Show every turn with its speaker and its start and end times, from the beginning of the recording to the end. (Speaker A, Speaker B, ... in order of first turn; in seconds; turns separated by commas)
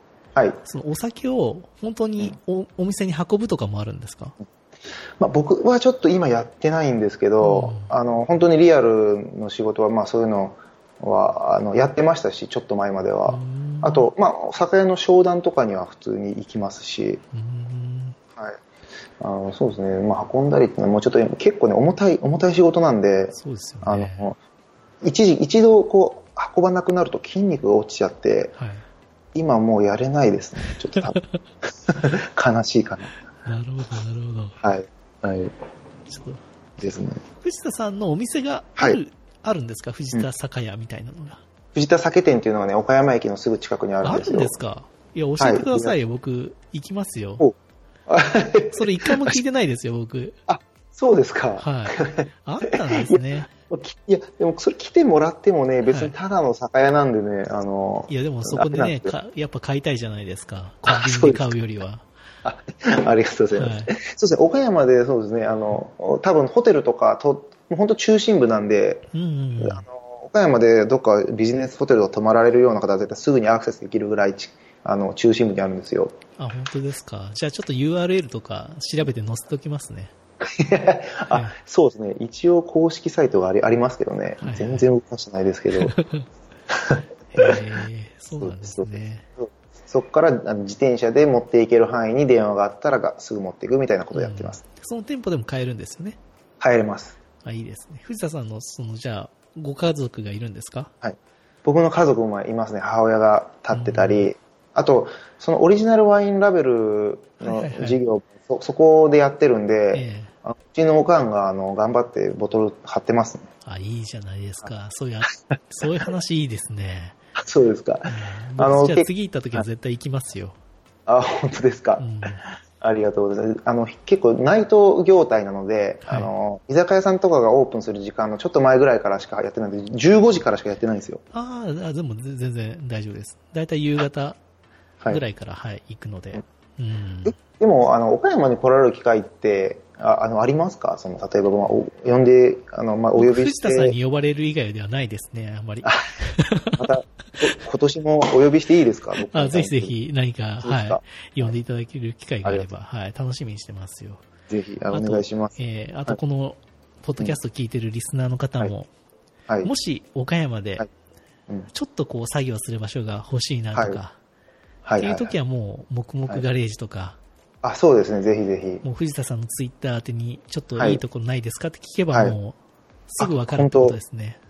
Speaker A: 0.3-0.6, Speaker B: 0.7-4.3, Speaker A: 5.2-17.2, Speaker B: 7.4-7.9, Speaker B: 13.3-14.1, Speaker B: 17.3-18.2, Speaker A: 19.2-24.4, Speaker B: 23.3-24.3, Speaker A: 25.0-28.5, Speaker B: 28.6-28.9, Speaker A: 29.4-31.2, Speaker A: 31.9-33.1, Speaker B: 33.5-34.6, Speaker A: 34.6-35.5, Speaker B: 36.1-36.4, Speaker A: 36.8-37.2, Speaker B: 37.4-41.4, Speaker A: 41.8-44.5, Speaker B: 44.0-47.5, Speaker A: 45.4-46.0, Speaker A: 48.1-49.4, Speaker B: 48.7-50.4, Speaker A: 50.5-59.2, Speaker B: 51.6-53.5, Speaker B: 55.9-56.1, Speaker B: 58.1-62.1, Speaker A: 60.9-61.6, Speaker A: 62.4-69.1, Speaker B: 63.6-63.9, Speaker B: 69.1-69.9, Speaker A: 69.6-76.2, Speaker B: 76.4-80.1, Speaker A: 80.4-86.0, Speaker B: 84.4-84.9, Speaker B: 85.8-86.3, Speaker A: 86.7-87.6, Speaker B: 87.4-89.2, Speaker A: 88.4-94.6, Speaker B: 94.1-96.2, Speaker A: 96.6-97.2, Speaker B: 97.4-100.9, Speaker A: 101.0-113.5, Speaker B: 103.7-104.3, Speaker B: 107.4-108.0, Speaker B: 109.9-110.3, Speaker B: 113.7-117.2, Speaker A: 117.4-119.7, Speaker B: 118.1-120.6, Speaker A: 121.1-122.1, Speaker B: 122.0-122.4, Speaker A: 122.8-131.2, Speaker B: 126.1-126.3, Speaker B: 131.3-134.4, Speaker B: 135.1-137.4, Speaker A: 137.2-144.0, Speaker B: 143.2-146.9, Speaker A: 146.8-149.9, Speaker B: 149.3-154.2, Speaker A: 150.6-151.5, Speaker A: 154.5-155.6, Speaker B: 154.9-158.9, Speaker B: 159.6-160.9, Speaker B: 161.7-164.2, Speaker A: 163.8-164.0, Speaker A: 164.8-165.3, Speaker B: 165.0-167.2, Speaker A: 167.6-168.8, Speaker B: 168.8-172.6, Speaker A: 170.8-171.0, Speaker B: 173.1-174.4, Speaker A: 173.2-174.0